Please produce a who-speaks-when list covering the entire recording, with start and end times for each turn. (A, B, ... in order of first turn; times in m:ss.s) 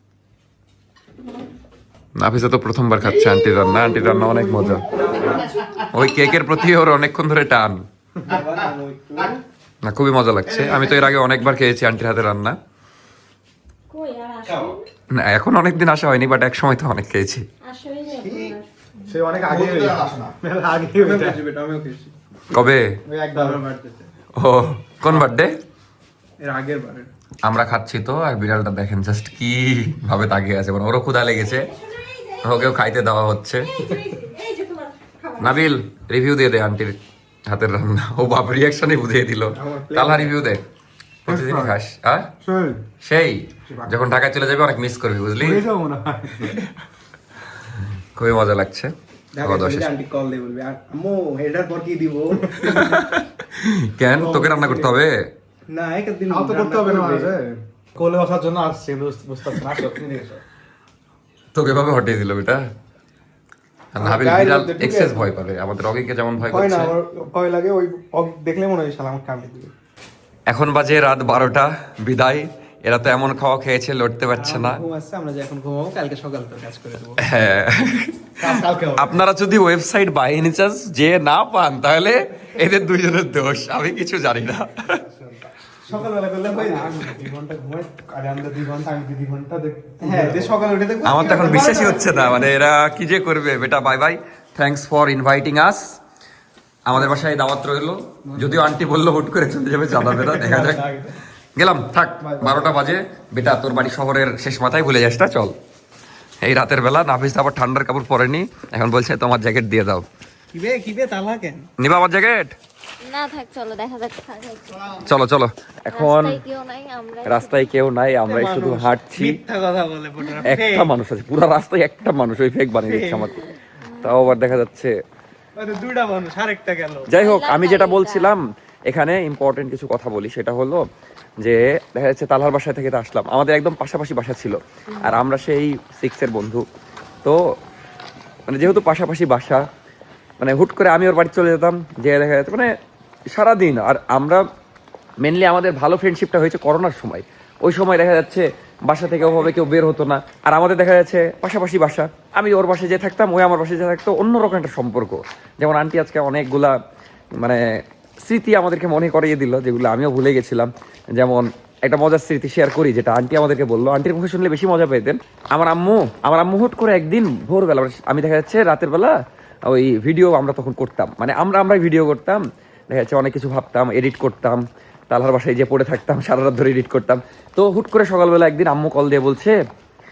0:02.2-0:04.8 A
0:03.0-0:05.9 B
0:05.4-0:05.8 C
0:05.9-0:07.8 A
0:08.2-0:09.4 D
0:08.3-0:09.3 B
0:09.8-0:12.6 A
0:10.5-0:11.1 B
0:13.9-0:14.8 C
0:15.1-0:17.4 A
0:17.6-0:18.7 C
0:18.1-0:18.6 B
0:19.1-0:21.5 B
0:19.1-0:22.1 D
0:22.5-0:23.0 A
0:23.1-0:23.7 D
0:23.1-0:24.0 B
0:24.4-0:25.6 A
0:26.4-0:27.1 D
0:27.4-0:31.7 A
0:31.4-0:32.8 C
0:32.4-0:33.8 A
0:33.6-0:35.7 C
0:35.4-0:40.6 A
0:39.6-0:40.3 D
0:41.2-0:42.3 A
0:41.3-0:41.7 B
0:42.4-0:42.8 B
0:43.0-0:45.7 A
0:45.4-0:46.6 B
0:48.1-0:49.9 A
0:49.3-0:53.0 D
0:52.6-0:55.3 A
0:54.2-0:54.9 D
0:55.7-0:57.3 D
0:56.3-0:57.6 B
0:58.8-1:00.4 B
0:59.5-0:59.9 D
1:01.5-1:02.6 A
1:03.9-1:07.0 A
1:04.0-1:05.2 D
1:06.4-1:09.7 D
1:10.5-1:14.8 A
1:14.3-1:17.2 D
1:17.2-1:25.0 A
1:18.4-1:19.2 D
1:24.9-1:27.2 D
1:25.9-1:30.6 B
1:30.0-1:32.4 D
1:31.0-1:36.0 A
1:31.4-1:31.7 B
1:36.8-1:40.9 A
1:40.0-1:41.1 D
1:41.6-1:45.5 A
1:42.2-1:42.6 D
1:46.4-1:50.0 A
1:50.5-1:51.7 D
1:51.8-1:52.5 A
1:53.0-1:55.0 E
1:55.0-1:56.4 A
1:55.9-1:57.7 E
1:57.2-1:59.4 A
1:58.3-2:00.9 D
2:00.4-2:03.4 A
2:02.8-2:03.3 D
2:03.9-2:04.2 E
2:04.0-2:04.9 A
2:05.6-2:07.1 D
2:07.1-2:10.8 A
2:07.1-2:08.3 E
2:11.4-2:16.6 A
2:18.5-2:19.6 A
2:20.4-2:22.7 A
2:23.3-2:24.4 A
2:25.2-2:36.8 A
2:37.4-2:37.6 A
2:38.2-2:59.6 A